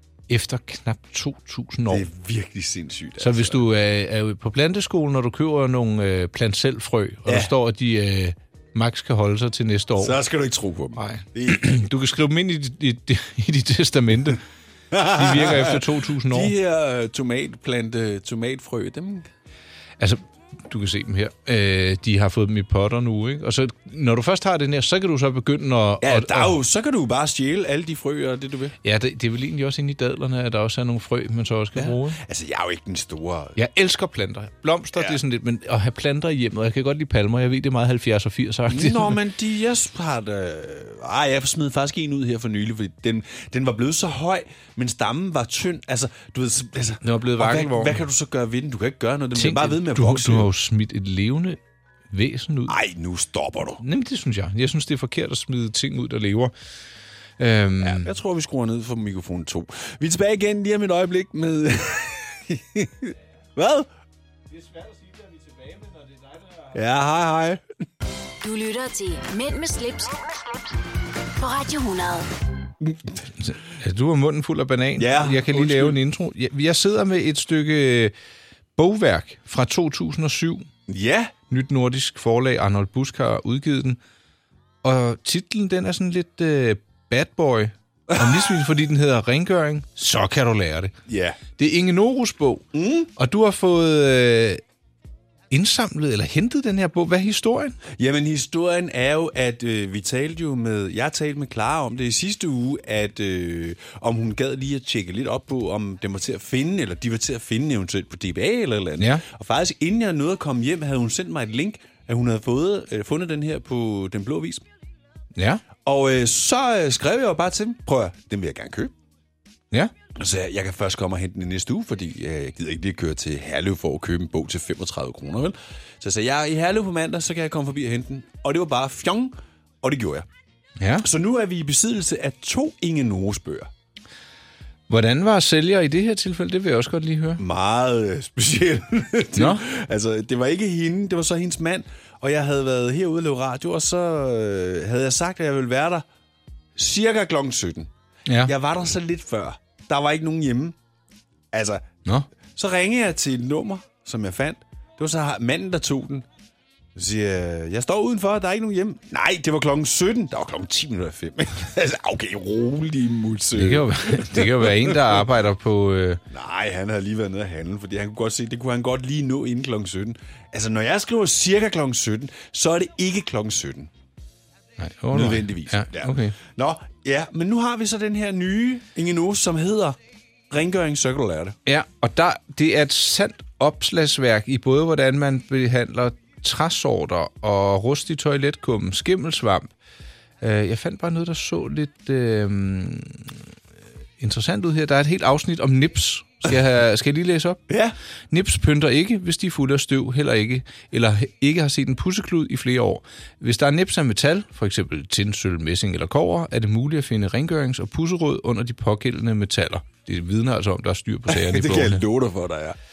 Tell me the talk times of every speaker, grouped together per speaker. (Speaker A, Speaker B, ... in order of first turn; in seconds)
Speaker A: 0.3-2.1, 3.2-10.2, 11.0-14.4, 15.0-16.5, 20.0-26.6, 28.8-32.2, 33.6-39.2, 47.0-48.0, 49.4-51.6, 52.1-52.8, 53.8-56.5, 57.4-58.1, 64.6-66.7, 73.4-78.1, 78.8-80.7, 81.5-84.0, 84.8-90.9, 91.6-94.6, 95.5-97.8, 109.0-109.2, 115.4-115.6, 130.8-131.1, 134.9-137.4, 139.3-139.6, 148.3-148.5, 163.6-166.2, 174.8-176.4, 181.7-189.7, 190.4-193.4, 194.2-197.6, 198.3-212.0
Speaker B: 1.9-3.6, 7.3-7.5, 10.0-11.8, 14.9-19.3, 26.0-28.8, 31.8-33.6, 38.7-50.5, 52.7-53.8, 57.8-63.9, 66.7-67.6, 75.0-76.0, 80.9-81.3, 88.1-88.5, 91.1-91.4, 92.7-93.1, 97.9-114.6, 115.8-118.9, 120.2-130.3, 131.0-133.7, 137.4-146.1, 146.8-147.9, 148.4-150.8, 151.5-151.8, 152.5-156.3, 156.9-165.2, 166.3-173.9, 175.1-180.0, 180.5-181.6, 197.7-197.9, 211.3-212.8
Speaker C: 68.4-70.6, 71.4-72.3